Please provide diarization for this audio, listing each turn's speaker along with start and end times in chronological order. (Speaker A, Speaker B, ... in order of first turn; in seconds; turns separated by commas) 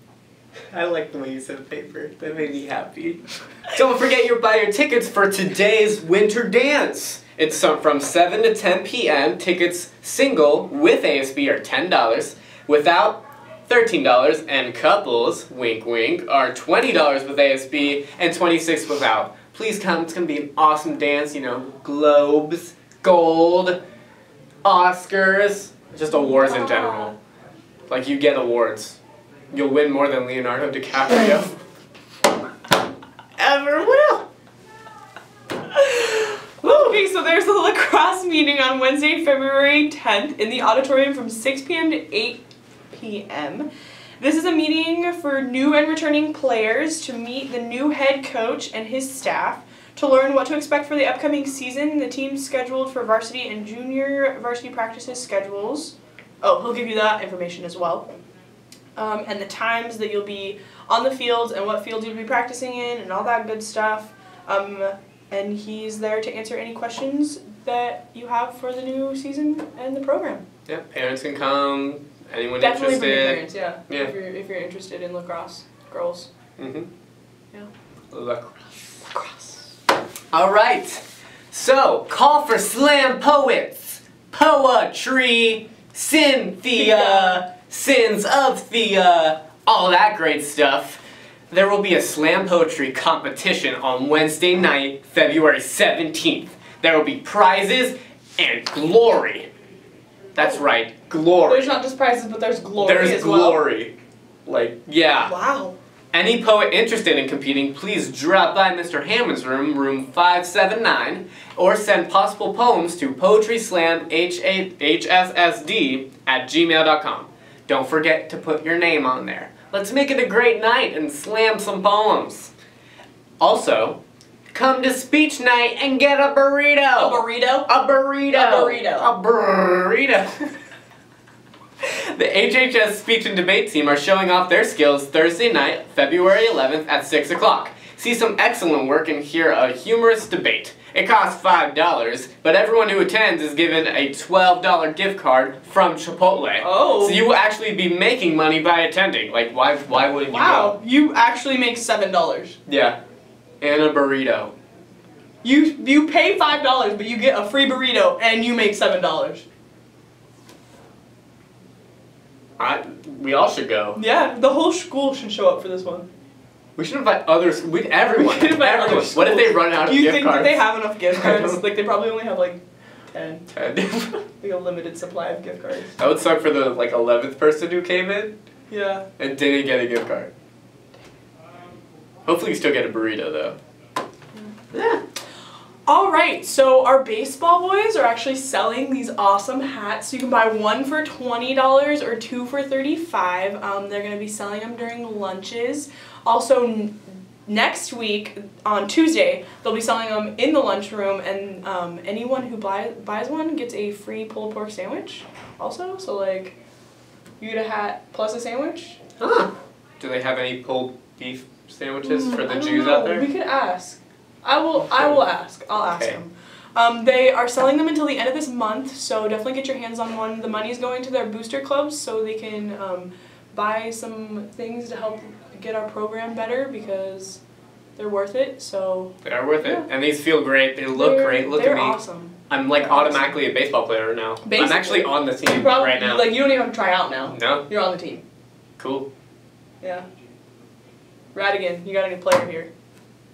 Speaker A: 0.7-23.8, Speaker A: 24.6-27.1, Speaker B: 26.1-27.1, Speaker A: 27.9-29.0, Speaker A: 29.5-31.6, Speaker A: 33.4-34.3, Speaker B: 36.0-43.7, Speaker A: 36.6-37.0, Speaker B: 44.2-58.1, Speaker B: 59.0-70.4, Speaker A: 70.7-74.1, Speaker B: 72.6-76.3, Speaker A: 76.6-76.9, Speaker A: 78.1-78.8, Speaker B: 79.1-79.8, Speaker A: 80.3-99.5, Speaker B: 86.7-87.4, Speaker A: 100.3-101.7, Speaker B: 101.5-103.6, Speaker A: 102.8-103.9, Speaker A: 104.5-105.3, Speaker B: 105.2-105.8, Speaker A: 106.1-122.5, Speaker A: 123.4-124.0, Speaker A: 124.5-130.5, Speaker B: 127.0-127.7, Speaker B: 128.3-129.1, Speaker A: 131.8-150.8, Speaker B: 146.6-147.2, Speaker B: 150.3-152.6, Speaker A: 152.7-153.0, Speaker A: 153.6-154.5, Speaker B: 155.4-159.4, Speaker A: 162.6-164.0, Speaker B: 163.9-166.1, Speaker A: 166.8-171.6, Speaker B: 168.1-173.5, Speaker A: 173.5-174.2, Speaker B: 174.4-175.9, Speaker A: 176.0-178.3, Speaker B: 178.7-179.1, Speaker A: 179.2-180.3, Speaker A: 182.2-183.6, Speaker A: 184.7-185.0, Speaker B: 185.9-206.6, Speaker B: 207.4-209.0, Speaker A: 209.2-213.2, Speaker B: 212.0-227.4, Speaker A: 214.9-215.2, Speaker A: 215.8-216.2, Speaker B: 228.0-229.9, Speaker A: 229.2-232.0, Speaker B: 230.9-233.4, Speaker A: 232.5-236.3, Speaker B: 234.4-238.2, Speaker A: 237.2-237.6, Speaker A: 238.8-239.1, Speaker B: 241.3-242.7